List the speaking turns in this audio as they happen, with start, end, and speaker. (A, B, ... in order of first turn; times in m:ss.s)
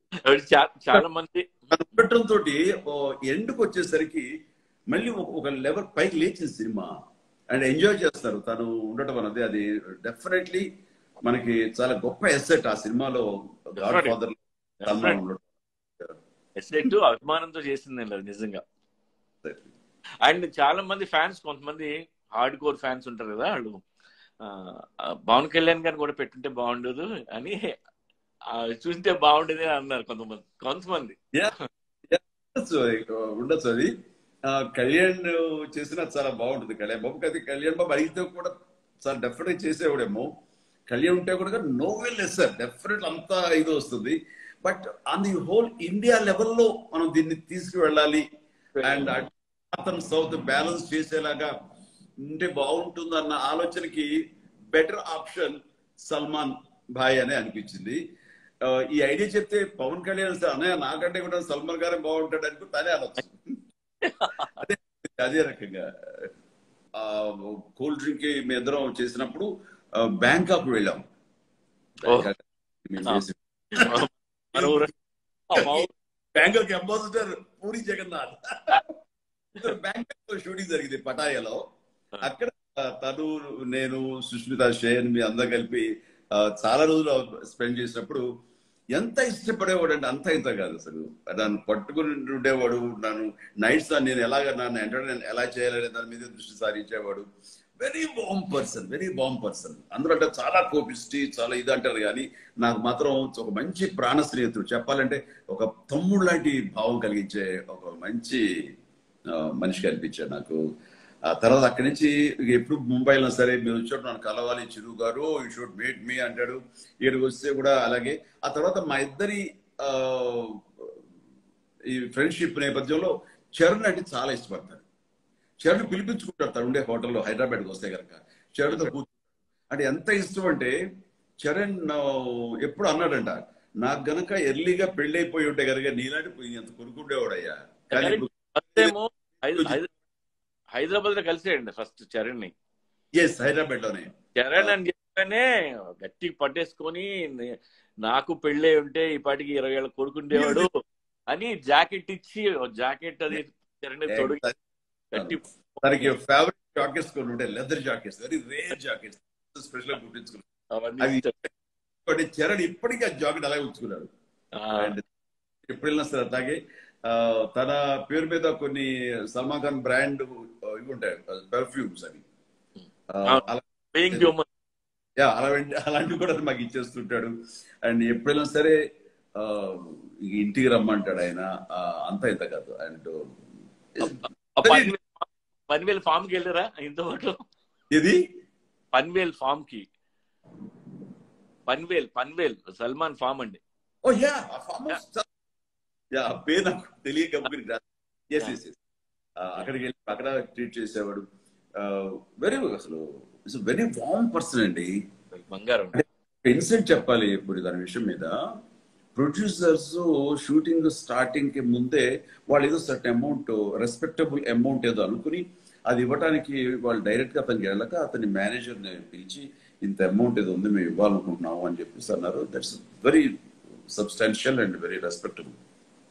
0:00.3-0:01.4 A
0:01.7-0:04.3 B
0:04.9-0:06.9 B
0:07.5-0:10.6 B
0:11.2-0:13.2 B
0:13.8-0:16.2 B
0:13.8-0:14.2 A
0:14.8-0:15.2 A
0:16.6-0:18.6 A
0:19.4-0:19.7 B
0:20.2-0:23.8 A
0:24.4-0:27.8 A
0:28.6-0:31.6 A
0:32.1-0:33.9 B
0:34.5-0:38.5 B
0:39.0-0:40.3 B
0:40.9-0:48.2 B
0:48.8-0:49.3 A
0:48.8-0:51.5 B
0:52.3-0:54.1 B
0:54.7-0:55.6 B
0:56.1-0:58.0 B
0:58.7-1:03.4 B
1:04.0-1:04.6 A
1:04.6-1:06.3 B
1:07.0-1:11.0 B
1:12.0-1:13.4 B
1:13.8-1:14.9 A
1:14.6-1:14.9 B
1:15.5-1:15.9 A
1:15.7-1:18.4 B
1:19.6-1:21.6 B
1:22.2-1:25.8 B
1:26.4-1:28.2 B
1:29.0-1:37.2 B
1:37.8-1:48.4 B
1:49.4-1:50.6 B
1:51.3-2:00.9 B
2:01.9-2:04.8 B
2:05.6-2:09.1 B
2:08.7-2:08.9 A
2:09.7-2:10.7 B
2:11.4-2:18.9 B
2:17.9-2:19.9 A
2:19.5-2:19.8 B
2:20.8-2:22.5 A
2:23.2-2:24.8 B
2:24.4-2:25.5 A
2:26.0-2:30.7 A
2:30.3-2:30.7 B
2:31.3-2:34.4 A
2:34.1-2:34.6 B
2:35.1-2:36.2 A
2:35.2-2:40.4 B
2:40.7-2:41.5 A
2:41.0-2:41.3 B
2:42.0-2:44.1 B
2:44.6-2:45.0 A
2:44.8-2:45.0 B
2:45.7-2:46.6 B
2:47.1-2:52.2 B
2:53.1-2:54.3 B
2:53.3-2:54.5 A
2:55.2-2:57.3 B
2:57.9-2:58.7 B
2:59.4-3:03.2 B
3:04.0-3:04.9 B
3:04.0-3:07.4 A
3:07.9-3:08.2 B
3:08.9-3:09.9 A
3:11.7-3:13.6 A
3:14.0-3:15.2 B
3:16.2-3:18.8 B
3:19.4-3:21.2 B
3:21.8-3:24.9 B
3:25.3-3:26.0 A
3:26.0-3:28.3 B
3:29.2-3:43.3 B
3:43.9-3:45.5 B